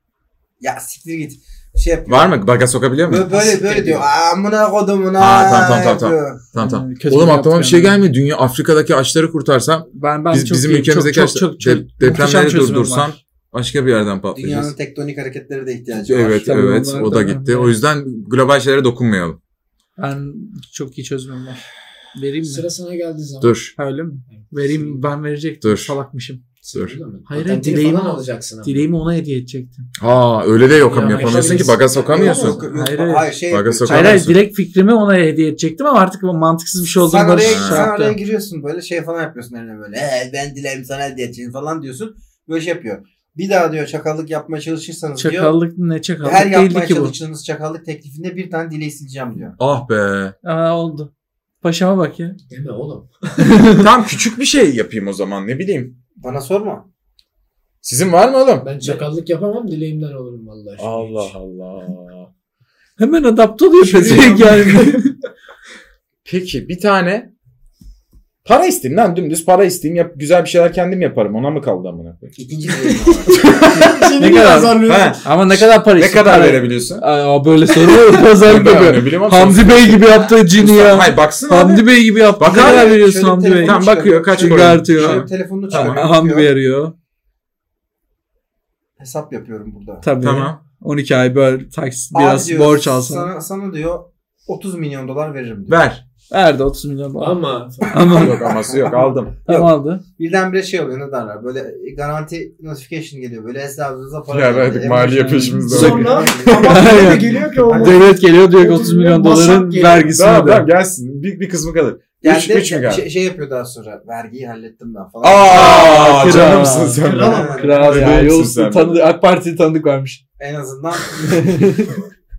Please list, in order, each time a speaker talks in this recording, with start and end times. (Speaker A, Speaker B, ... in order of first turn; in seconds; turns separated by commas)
Speaker A: 0.6-2.5, Speaker B: 2.1-3.3, Speaker A: 3.0-6.5, Speaker C: 3.1-4.0, Speaker B: 5.2-14.7, Speaker D: 6.6-8.0, Speaker D: 9.9-13.2, Speaker A: 14.3-16.5, Speaker B: 15.9-19.4, Speaker D: 16.5-17.8, Speaker D: 20.0-21.6, Speaker D: 22.1-22.7, Speaker C: 22.5-23.6, Speaker B: 23.4-23.7, Speaker D: 23.8-26.4, Speaker C: 24.3-25.0, Speaker B: 25.6-26.0, Speaker C: 26.6-28.9, Speaker D: 27.3-29.9, Speaker B: 30.0-32.6, Speaker D: 30.9-31.7, Speaker C: 31.1-32.7, Speaker A: 31.9-34.3, Speaker D: 32.7-38.2, Speaker B: 33.5-34.4, Speaker A: 37.0-45.6, Speaker B: 37.4-37.9, Speaker D: 45.2-47.1, Speaker A: 46.2-49.6, Speaker B: 49.6-50.3, Speaker D: 50.4-51.1, Speaker D: 51.6-52.4, Speaker C: 52.5-53.6, Speaker D: 53.4-53.9, Speaker B: 53.7-56.0, Speaker A: 56.2-56.9, Speaker B: 57.8-58.7, Speaker C: 58.6-61.4, Speaker B: 60.8-62.3, Speaker D: 63.0-65.1, Speaker C: 63.8-64.6, Speaker A: 63.9-64.8, Speaker B: 66.2-67.3, Speaker B: 68.4-72.3, Speaker A: 72.4-73.5, Speaker C: 73.0-75.2, Speaker B: 73.3-73.9, Speaker D: 73.4-83.8, Speaker B: 74.8-77.0, Speaker B: 78.4-83.0, Speaker A: 82.5-86.5, Speaker B: 83.6-86.0, Speaker D: 84.3-86.9, Speaker A: 89.0-90.0, Speaker D: 90.0-93.3, Speaker B: 90.2-90.6, Speaker A: 92.1-95.8, Speaker B: 95.7-96.0, Speaker D: 96.3-98.6, Speaker C: 97.2-97.9, Speaker A: 97.9-108.0, Speaker B: 98.1-99.3, Speaker D: 99.5-100.0, Speaker B: 104.3-106.7, Speaker D: 104.9-110.7, Speaker C: 105.6-110.1, Speaker B: 110.1-113.1, Speaker A: 112.2-116.7, Speaker B: 115.2-119.0, Speaker D: 115.5-120.2, Speaker C: 115.6-116.4, Speaker C: 116.9-118.3, Speaker A: 117.2-118.0, Speaker A: 120.4-121.8, Speaker D: 121.2-122.0